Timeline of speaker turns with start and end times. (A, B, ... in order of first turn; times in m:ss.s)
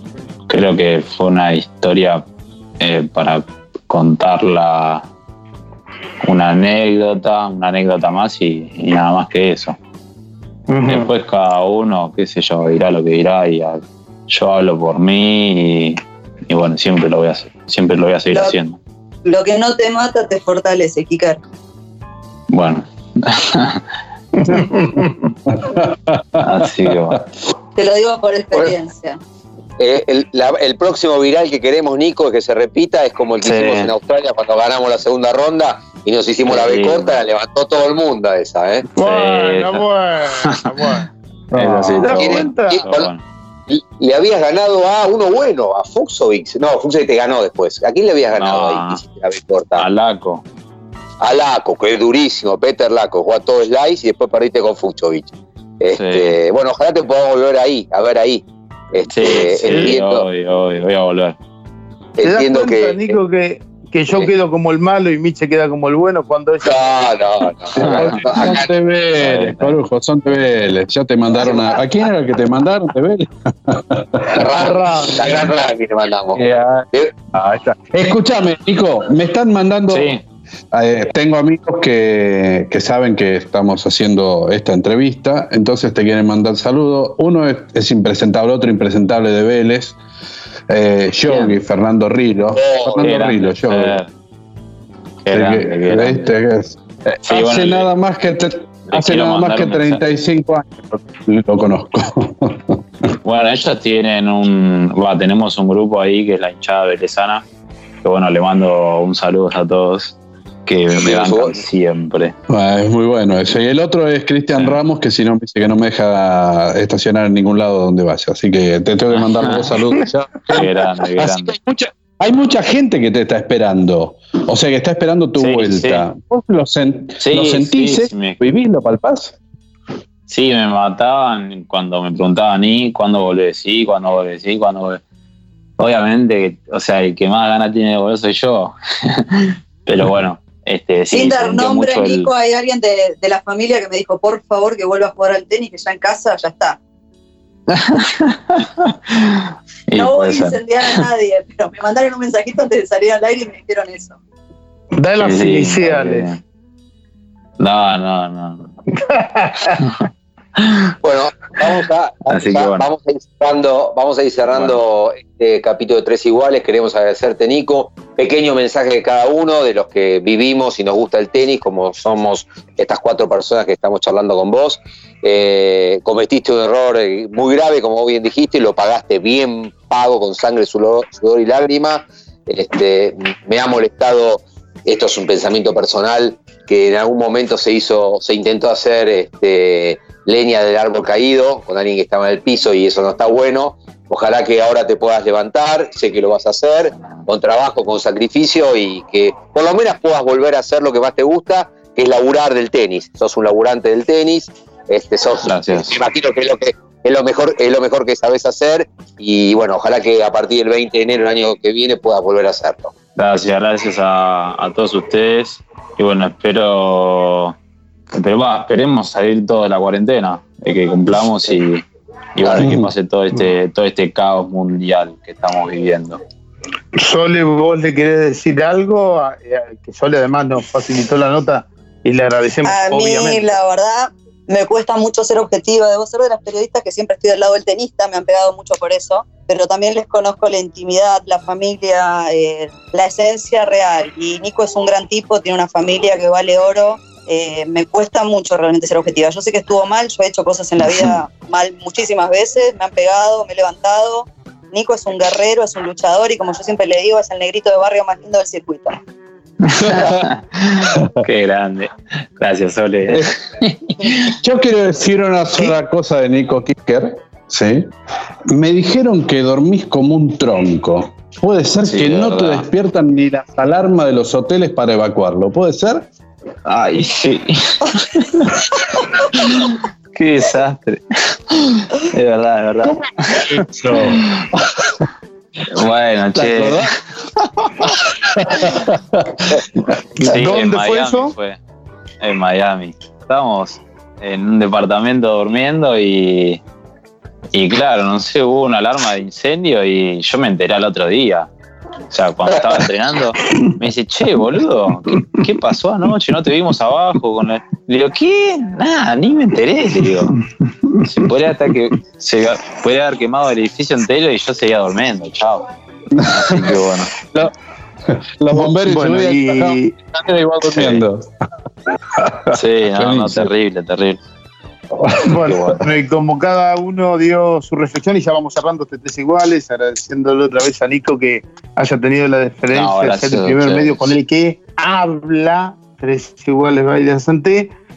0:00.5-0:02.2 A
0:02.8-0:05.0 A
0:06.2-0:09.8 A
0:10.7-0:11.1 B
0:10.8-0:18.8 A
0:19.2-0:21.4 C
0:22.5-0:23.8 A
0:24.4-0:25.2 B
0:25.5-0:27.1 D
0:26.4-0:27.2 A
0:27.8-0:29.2 C
0:29.8-0:38.9 E
0:33.4-0:33.9 A
0:36.5-0:37.2 A
0:38.9-0:41.0 B
0:39.0-0:40.8 A
0:41.5-0:42.1 D
0:41.5-0:43.2 A
0:42.0-0:42.8 B
0:42.1-0:43.1 E
0:43.7-0:49.8 E
0:48.4-0:49.0 A
0:49.8-0:50.4 A
0:51.2-1:00.2 E
0:56.0-0:56.4 A
0:59.1-1:01.4 A
1:02.2-1:03.2 E
1:02.2-1:07.1 B
1:06.6-1:08.7 E
1:07.8-1:15.5 D
1:07.8-1:08.1 A
1:09.2-1:09.8 A
1:11.4-1:11.8 E
1:14.3-1:17.1 E
1:16.3-1:20.1 D
1:19.9-1:20.2 A
1:20.7-1:30.0 D
1:30.7-1:34.0 D
1:31.3-1:31.6 A
1:32.5-1:33.0 E
1:32.9-1:34.1 A
1:35.2-1:36.3 A
1:35.3-1:43.1 D
1:37.2-1:37.9 A
1:38.9-1:40.0 A
1:43.2-1:47.4 A
1:48.0-1:52.4 A
1:51.0-1:51.6 E
1:52.5-2:09.3 D
1:59.1-1:59.7 A
2:00.5-2:01.5 A
2:05.4-2:06.0 A
2:07.2-2:08.4 A
2:10.3-2:15.0 A
2:15.8-2:22.3 A
2:21.1-2:26.8 C
2:27.7-2:30.9 A
2:29.9-2:34.2 C
2:34.9-2:36.3 B
2:35.2-2:36.4 A
2:37.6-2:38.7 A
2:39.0-2:39.8 B
2:39.7-2:40.0 A
2:40.6-2:40.9 A
2:41.0-3:32.9 E
2:42.3-2:42.9 A
3:25.4-3:26.0 A
3:33.2-3:37.5 A
3:38.1-3:46.2 A
3:42.6-3:42.9 D
3:46.9-3:53.6 B
3:52.6-4:19.0 C
4:19.6-4:24.3 A
4:19.8-4:20.2 D
4:24.3-4:27.9 D
4:28.5-4:36.1 D
4:31.8-4:32.7 A
4:36.6-4:43.5 A
4:43.4-4:44.2 D
4:44.1-4:44.6 A
4:45.7-4:47.0 A
4:46.3-4:46.9 D
4:47.8-4:49.7 D
4:50.2-4:51.3 B
4:50.2-4:51.6 A
4:52.2-4:56.6 A
4:57.5-5:01.5 A
5:02.1-5:10.3 A
5:11.0-5:15.7 A
5:16.1-5:16.8 D
5:16.3-5:17.1 A
5:18.1-5:21.3 D
5:18.5-5:19.9 B
5:20.8-5:21.0 A
5:22.2-5:23.5 D
5:22.5-5:24.2 A
5:25.2-5:37.7 B
5:25.4-5:25.8 A
5:32.7-5:34.1 A